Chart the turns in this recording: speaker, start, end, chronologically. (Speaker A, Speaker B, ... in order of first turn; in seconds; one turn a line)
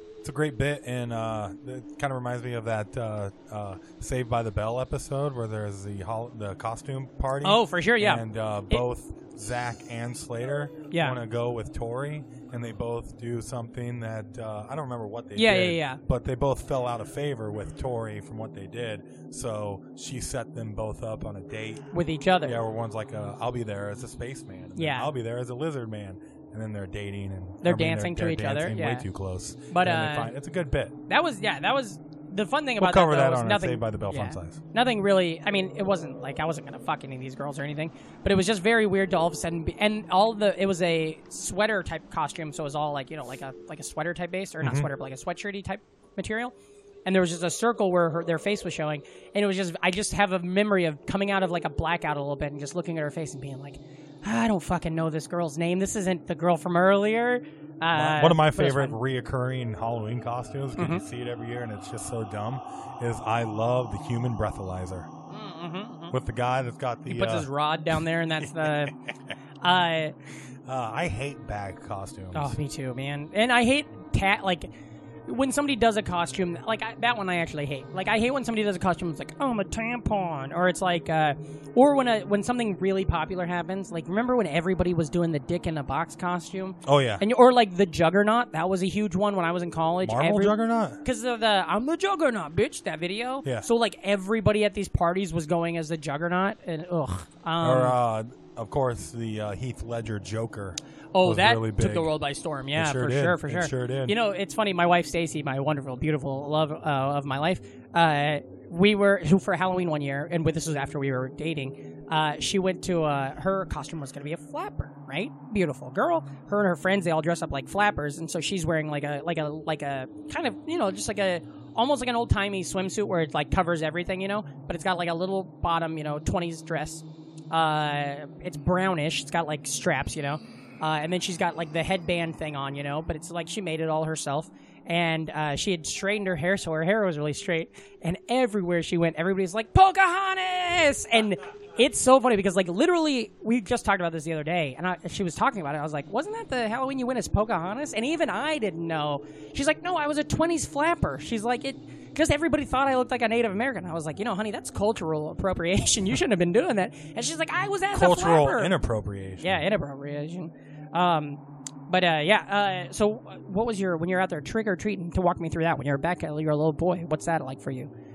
Speaker A: 0.2-21.8
Speaker B: 7.4-8.8
Speaker B: 10.9-11.2
Speaker B: 15.3-16.0
Speaker B: 21.9-22.6
Speaker A: 22.4-30.9
Speaker B: 24.8-25.1
Speaker B: 27.6-29.1
Speaker B: 29.7-30.3
Speaker B: 31.1-46.5
Speaker A: 32.8-34.6
Speaker A: 44.6-44.9
Speaker B: 47.0-59.0
Speaker A: 57.9-65.1
Speaker B: 60.8-61.0
Speaker B: 65.3-66.2
Speaker A: 66.1-67.5
Speaker B: 67.0-68.9
Speaker A: 68.4-69.1
Speaker B: 69.6-70.1
Speaker A: 70.7-72.5
Speaker B: 72.3-74.7
Speaker B: 75.3-98.0
Speaker A: 86.8-87.2
Speaker A: 90.0-91.0
Speaker A: 97.6-102.1
Speaker B: 101.1-158.7
Speaker A: 102.7-104.2
Speaker A: 157.9-159.6
Speaker B: 159.4-167.9